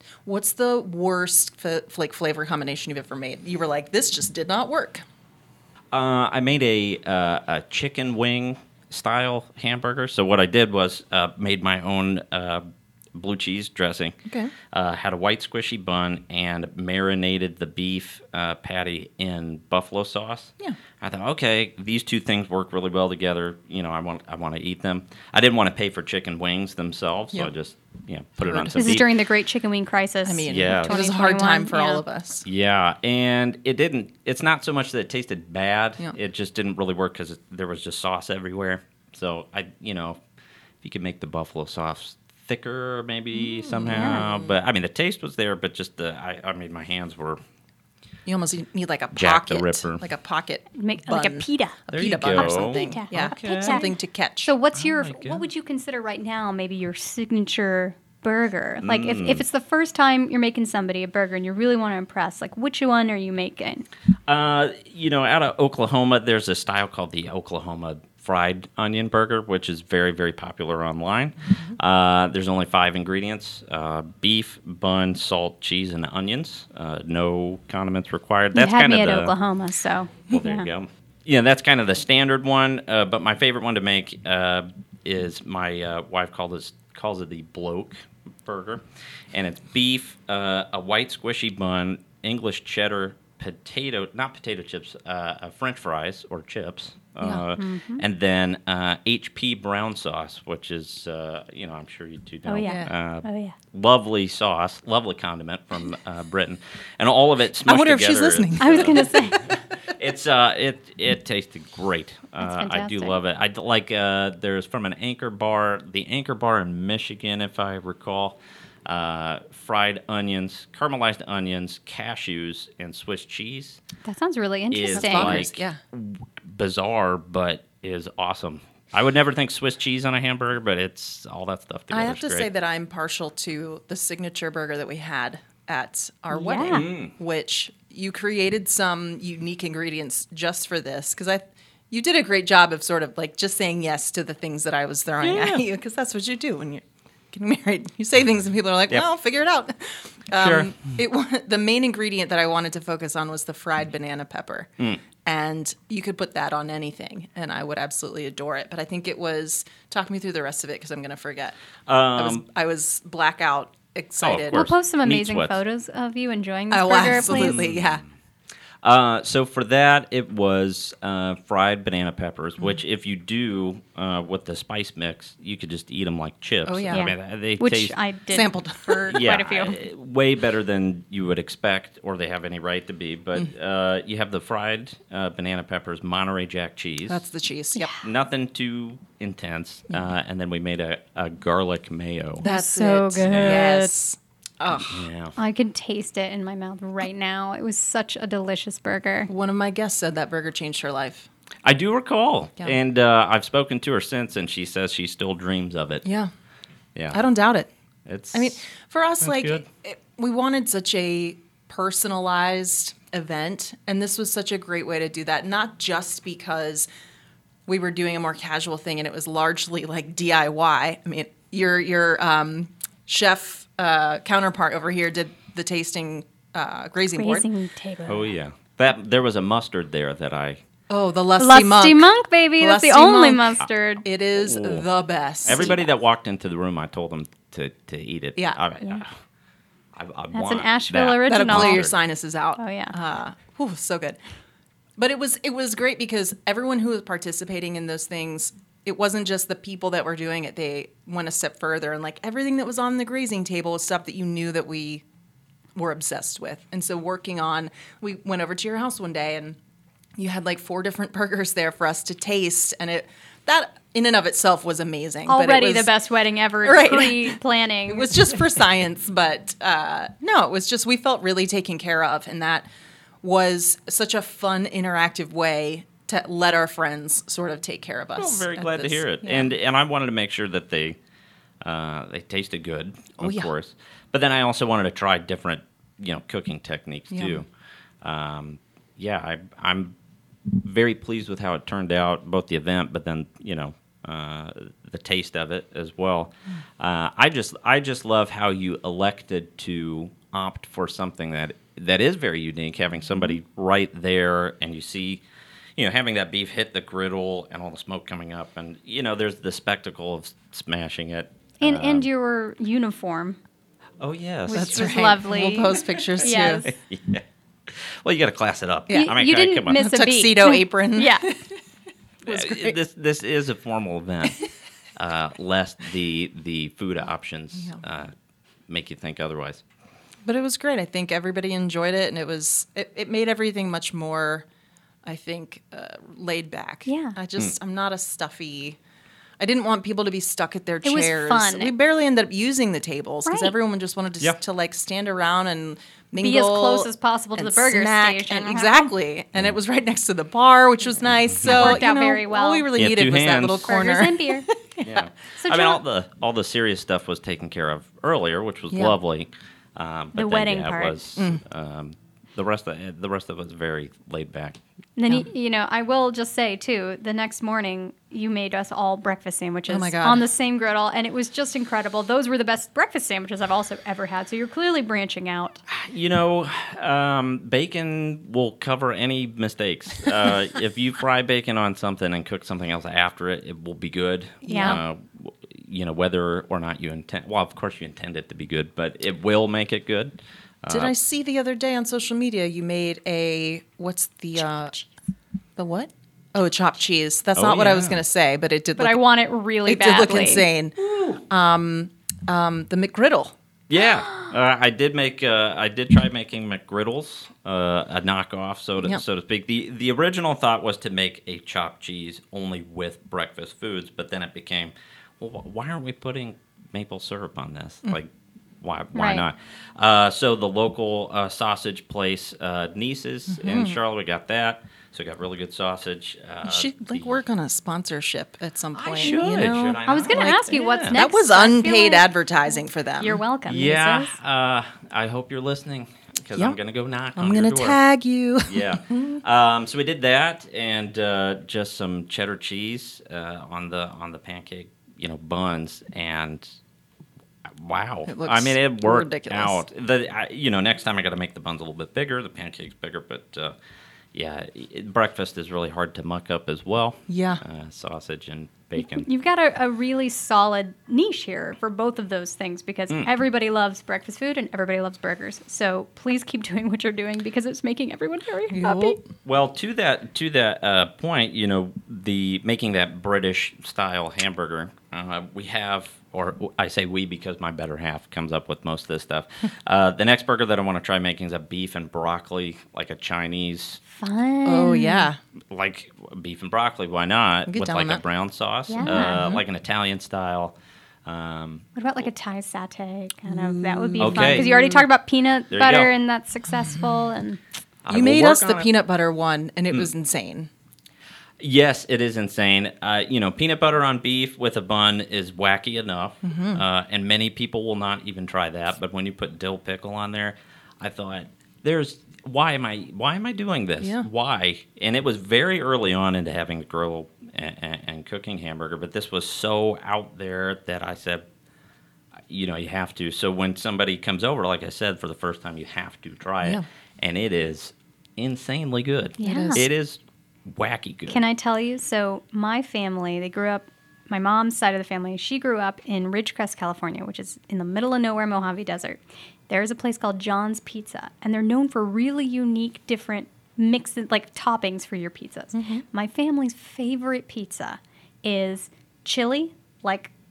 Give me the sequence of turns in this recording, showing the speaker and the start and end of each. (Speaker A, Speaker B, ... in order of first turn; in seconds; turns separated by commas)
Speaker A: 0.2-5.0, Speaker B: 5.9-14.2, Speaker A: 14.3-14.5, Speaker B: 14.7-29.1, Speaker A: 28.4-28.8, Speaker C: 28.7-32.0, Speaker A: 30.2-32.4, Speaker B: 30.5-31.0, Speaker B: 32.4-40.2, Speaker B: 40.8-47.4, Speaker A: 43.6-44.5, Speaker C: 43.9-44.2, Speaker A: 48.2-54.5, Speaker B: 49.1-50.0, Speaker C: 50.7-51.8, Speaker B: 51.9-53.9, Speaker C: 52.3-53.9, Speaker C: 54.4-63.9, Speaker B: 54.8-55.4, Speaker B: 58.8-59.5, Speaker B: 64.3-79.3, Speaker C: 78.5-80.7, Speaker B: 80.3-123.8, Speaker C: 97.5-98.0, Speaker C: 102.5-103.5, Speaker A: 102.6-102.9, Speaker A: 107.6-109.0, Speaker C: 108.6-109.5, Speaker C: 112.4-113.2, Speaker C: 124.0-125.5, Speaker B: 124.7-132.5, Speaker A: 124.9-125.8, Speaker A: 131.9-154.7, Speaker C: 136.3-136.8, Speaker B: 136.7-137.1, Speaker B: 145.2-145.6, Speaker B: 150.3-150.7, Speaker A: 155.2-161.5, Speaker B: 161.9-162.4, Speaker A: 162.1-164.7, Speaker B: 164.2-165.6, Speaker C: 164.5-167.5, Speaker A: 166.7-168.0, Speaker B: 167.1-168.1, Speaker B: 168.8-177.9, Speaker A: 176.7-177.1, Speaker C: 176.9-179.8, Speaker A: 178.3-179.3, Speaker B: 179.1-187.2, Speaker A: 187.1-187.9, Speaker C: 187.8-188.0, Speaker B: 188.0-192.4, Speaker A: 192.4-195.1, Speaker C: 192.4-193.9, Speaker B: 193.2-193.7, Speaker B: 194.7-195.3, Speaker C: 195.4-199.3, Speaker A: 199.3-201.3, Speaker B: 201.6-206.0, Speaker A: 206.0-206.3, Speaker A: 207.1-207.7, Speaker B: 208.1-208.6, Speaker A: 208.3-216.9, Speaker B: 209.2-209.6, Speaker A: 217.7-227.5, Speaker C: 227.2-228.3, Speaker B: 228.1-230.6, Speaker A: 230.9-235.8, Speaker C: 231.4-234.0, Speaker B: 234.3-234.8, Speaker B: 235.4-239.1, Speaker B: 239.9-241.9, Speaker C: 240.3-241.9, Speaker A: 241.2-244.2, Speaker C: 242.6-242.9, Speaker A: 245.0-255.0, Speaker A: 255.8-259.6, Speaker A: 260.2-265.9, Speaker C: 265.3-268.2, Speaker A: 266.6-272.6, Speaker A: 273.2-279.5, Speaker B: 278.2-281.0, Speaker B: 281.6-287.5, Speaker A: 283.2-283.5, Speaker A: 287.1-287.4, Speaker B: 288.0-289.9, Speaker B: 290.5-305.2, Speaker B: 305.8-312.1, Speaker C: 311.6-313.4, Speaker B: 314.0-315.0, Speaker C: 314.5-316.7, Speaker A: 314.5-316.7, Speaker B: 316.2-319.8, Speaker A: 318.9-319.1, Speaker C: 318.9-321.3, Speaker A: 319.7-321.6, Speaker A: 322.2-322.8, Speaker B: 322.3-324.4, Speaker B: 324.9-328.1, Speaker A: 327.6-327.8, Speaker B: 328.7-329.6, Speaker A: 330.2-334.4, Speaker A: 335.0-338.8, Speaker C: 336.9-337.1, Speaker A: 339.4-355.0, Speaker C: 340.8-341.7, Speaker C: 343.2-343.5, Speaker C: 346.2-348.9, Speaker B: 351.4-351.8, Speaker C: 351.4-352.7, Speaker B: 352.7-353.7, Speaker C: 353.6-354.4, Speaker B: 354.8-364.6, Speaker C: 355.4-355.8, Speaker A: 358.7-358.9, Speaker C: 360.1-360.9, Speaker A: 361.1-361.4, Speaker C: 365.0-375.6, Speaker A: 369.7-370.2, Speaker B: 375.7-390.9, Speaker A: 384.4-384.8, Speaker C: 384.5-384.8, Speaker A: 390.7-394.7, Speaker A: 395.6-399.0, Speaker B: 397.4-398.0, Speaker C: 398.8-400.5, Speaker A: 399.6-403.3, Speaker B: 400.8-401.2, Speaker B: 403.7-418.1, Speaker B: 418.6-427.2, Speaker C: 418.9-419.2, Speaker A: 423.3-423.8, Speaker A: 426.4-433.2, Speaker B: 428.7-431.0, Speaker C: 429.0-432.1, Speaker C: 433.0-434.1, Speaker B: 433.4-437.8, Speaker A: 437.1-439.2, Speaker B: 438.4-446.6, Speaker B: 447.4-453.5, Speaker A: 448.1-449.6, Speaker B: 454.1-459.1, Speaker A: 457.1-457.4, Speaker C: 458.8-469.0, Speaker A: 468.5-469.0, Speaker B: 469.2-483.8, Speaker C: 483.9-485.1, Speaker A: 484.4-485.2, Speaker B: 485.5-491.6, Speaker A: 487.5-488.0, Speaker C: 488.7-489.2, Speaker A: 488.8-489.4, Speaker C: 491.7-497.4, Speaker A: 493.3-494.8, Speaker B: 494.0-494.5, Speaker B: 495.5-495.9, Speaker B: 497.8-498.7, Speaker A: 497.9-500.5, Speaker B: 501.4-521.2, Speaker A: 506.2-506.6, Speaker A: 513.8-514.1, Speaker B: 522.3-531.2, Speaker C: 529.2-529.6, Speaker A: 529.2-529.6, Speaker C: 531.1-550.1, Speaker A: 545.5-545.8